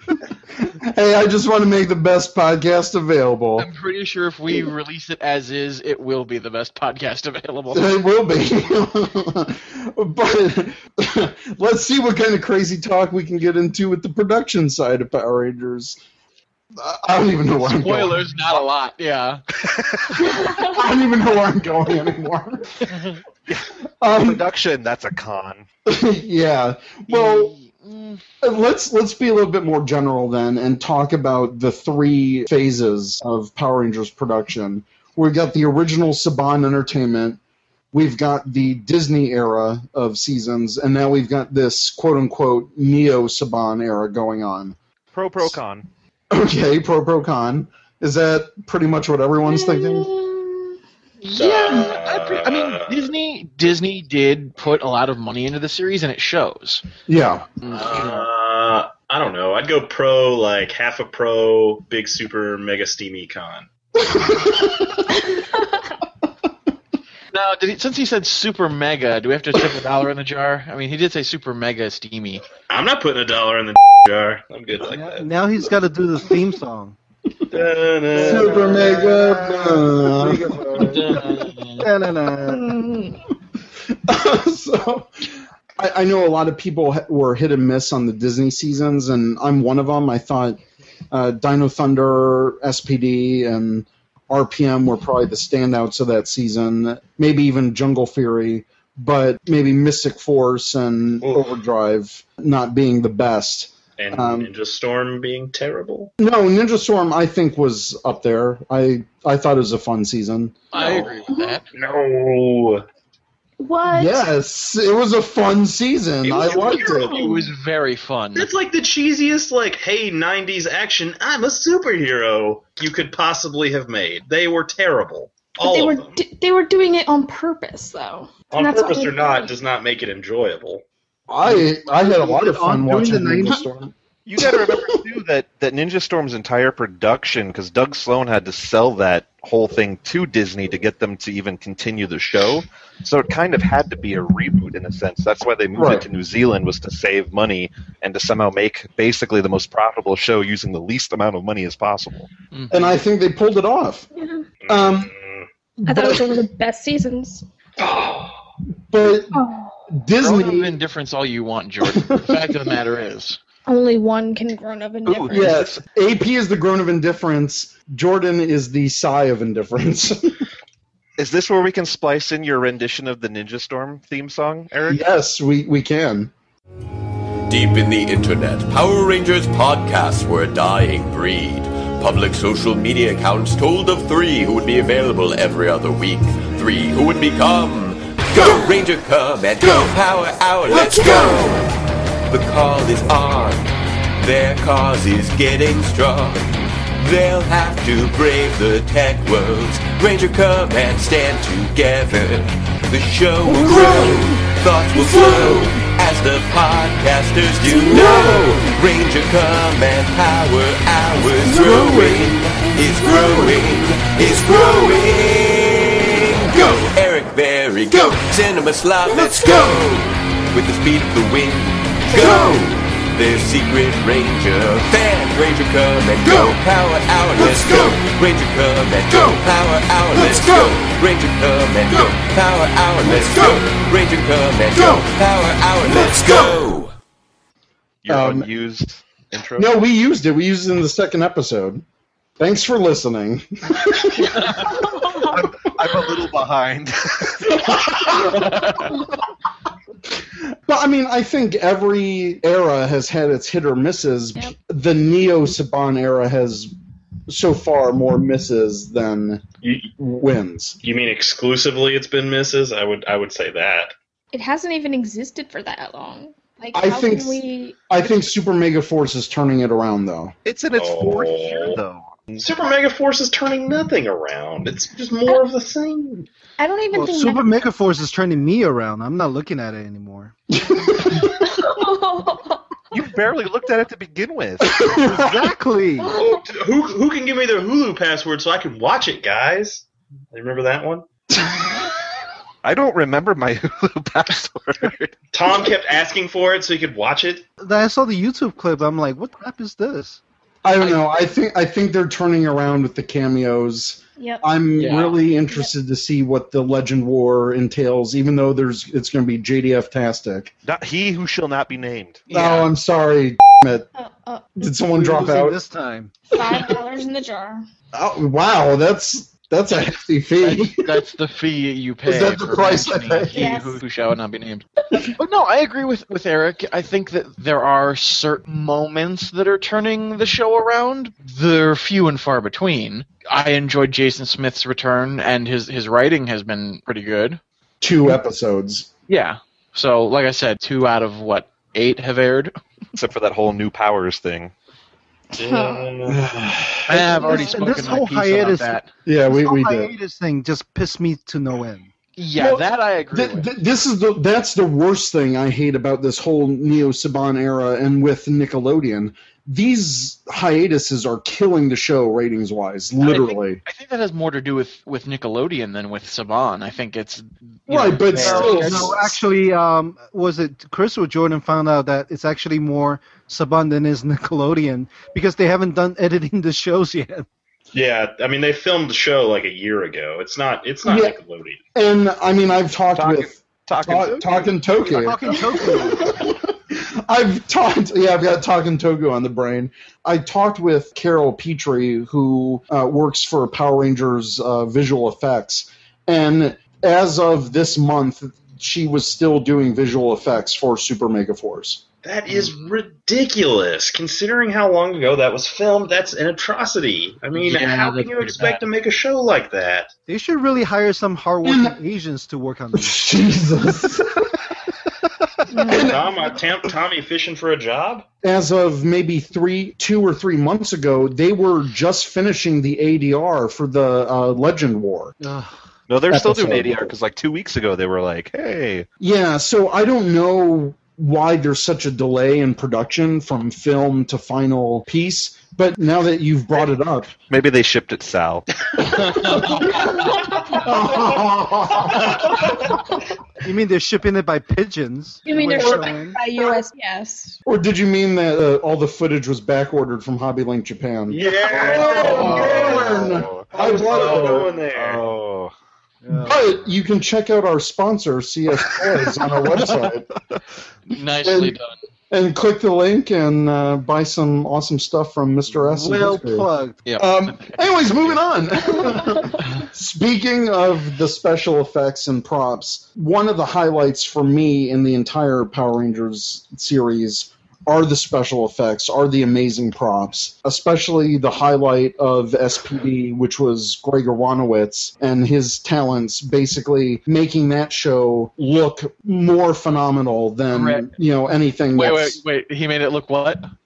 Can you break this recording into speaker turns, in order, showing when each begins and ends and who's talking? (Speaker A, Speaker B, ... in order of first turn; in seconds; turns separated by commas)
Speaker A: 0.8-3.7, Speaker B: 3.6-8.0, Speaker A: 7.7-16.0, Speaker A: 16.8-18.5, Speaker B: 17.6-19.4, Speaker C: 19.8-20.0, Speaker A: 20.2-22.9, Speaker D: 20.3-20.8, Speaker C: 23.5-25.7, Speaker A: 24.0-24.4, Speaker A: 25.9-27.5, Speaker B: 27.1-28.2, Speaker A: 28.4-37.4, Speaker A: 37.9-44.8, Speaker C: 45.1-45.9, Speaker A: 46.3-50.1, Speaker D: 49.5-50.7, Speaker B: 51.2-56.9, Speaker E: 51.4-53.1, Speaker A: 57.1-57.6, Speaker B: 57.6-58.2, Speaker E: 57.7-63.7, Speaker A: 64.0-65.1, Speaker B: 67.3-72.4, Speaker E: 72.7-75.3, Speaker F: 74.9-77.0, Speaker E: 77.5-79.2, Speaker F: 78.1-82.8, Speaker A: 78.2-80.6, Speaker E: 80.7-81.6, Speaker B: 80.9-81.9, Speaker D: 82.5-83.2, Speaker A: 84.1-90.6, Speaker A: 91.1-104.5, Speaker E: 101.2-101.5, Speaker E: 104.0-106.1, Speaker A: 106.2-110.6, Speaker B: 110.7-111.7, Speaker D: 110.8-111.6, Speaker E: 110.8-112.8, Speaker D: 113.6-114.3, Speaker A: 113.9-117.2, Speaker E: 116.3-117.1, Speaker B: 116.3-118.5, Speaker D: 116.8-117.5, Speaker E: 118.3-126.2, Speaker D: 125.6-129.5, Speaker E: 128.5-130.8, Speaker A: 131.3-133.9, Speaker F: 131.4-133.7, Speaker C: 134.3-152.3, Speaker A: 145.8-146.1, Speaker B: 152.5-153.0, Speaker A: 152.7-154.1, Speaker D: 154.2-154.5, Speaker E: 154.6-155.5, Speaker A: 154.7-155.1, Speaker A: 155.8-156.4, Speaker D: 155.9-157.4, Speaker E: 157.8-158.4, Speaker A: 158.9-160.7, Speaker D: 159.3-159.8, Speaker B: 160.2-163.4, Speaker A: 161.8-162.5, Speaker D: 163.7-165.6, Speaker B: 165.1-165.8, Speaker A: 165.3-170.4, Speaker C: 171.2-175.0, Speaker A: 174.9-176.3, Speaker G: 177.5-191.6, Speaker D: 190.8-191.5, Speaker G: 192.3-236.9, Speaker A: 203.5-204.4, Speaker A: 204.9-205.7, Speaker D: 207.7-208.4, Speaker A: 207.9-208.6, Speaker D: 211.4-211.8, Speaker A: 211.5-212.4, Speaker C: 238.0-239.7, Speaker A: 238.1-238.5, Speaker A: 239.6-241.8, Speaker A: 242.4-244.5, Speaker C: 244.6-248.9, Speaker D: 245.0-245.3, Speaker A: 247.7-248.2, Speaker B: 248.3-248.9, Speaker A: 250.7-256.7, Speaker A: 257.3-259.4, Speaker E: 259.6-259.9, Speaker A: 260.0-260.8, Speaker E: 260.8-263.9, Speaker D: 264.3-267.8, Speaker A: 266.7-270.3, Speaker C: 270.4-272.4, Speaker E: 270.8-271.8, Speaker E: 272.4-276.3, Speaker D: 276.6-277.7, Speaker F: 276.9-280.3, Speaker A: 280.7-281.2, Speaker D: 281.2-282.6, Speaker C: 282.9-284.9, Speaker A: 284.6-285.4, Speaker F: 285.0-286.1, Speaker D: 286.0-286.4, Speaker E: 286.1-291.1, Speaker C: 292.6-295.1, Speaker E: 295.3-297.5, Speaker F: 297.6-300.2, Speaker A: 300.6-310.5, Speaker D: 304.2-305.7, Speaker B: 304.8-305.1, Speaker C: 310.7-312.2, Speaker B: 312.3-312.7, Speaker A: 312.3-313.9, Speaker D: 314.0-314.6, Speaker A: 314.6-315.6, Speaker F: 314.9-316.2, Speaker D: 316.3-317.6, Speaker A: 316.4-316.7, Speaker A: 317.9-320.9, Speaker B: 320.4-337.4, Speaker A: 322.1-323.5, Speaker D: 323.3-323.8, Speaker A: 337.8-338.9, Speaker B: 339.1-342.6, Speaker C: 342.9-344.5, Speaker D: 345.3-345.9, Speaker E: 345.4-346.3, Speaker A: 346.1-346.9, Speaker B: 346.9-348.9, Speaker F: 347.1-351.9, Speaker D: 347.2-347.6, Speaker A: 349.1-349.9, Speaker B: 352.2-353.5, Speaker A: 352.4-363.6, Speaker B: 363.0-369.1, Speaker A: 367.7-369.1, Speaker F: 368.1-377.3, Speaker E: 377.7-381.6, Speaker A: 380.8-381.2, Speaker A: 381.8-401.8, Speaker C: 383.0-384.6, Speaker F: 384.8-386.1, Speaker E: 402.0-409.9, Speaker B: 407.3-408.7, Speaker F: 410.1-413.0, Speaker A: 411.4-411.8, Speaker A: 412.8-414.4, Speaker D: 415.5-415.9, Speaker A: 415.5-416.1, Speaker E: 415.7-418.1, Speaker A: 418.2-425.2, Speaker F: 425.2-425.5, Speaker C: 425.9-428.9, Speaker A: 426.1-426.9, Speaker A: 429.0-437.1, Speaker C: 437.3-438.9, Speaker A: 438.8-442.7, Speaker D: 439.7-440.7, Speaker F: 443.4-446.2, Speaker D: 445.2-447.4, Speaker A: 447.5-454.5, Speaker E: 451.1-455.1, Speaker B: 451.6-452.8, Speaker C: 452.3-455.5, Speaker F: 456.0-456.8, Speaker A: 456.2-460.1, Speaker B: 460.9-461.7, Speaker A: 461.2-461.6, Speaker A: 462.1-492.2, Speaker F: 465.5-466.8, Speaker B: 466.9-468.2, Speaker B: 490.5-490.9, Speaker B: 491.8-493.5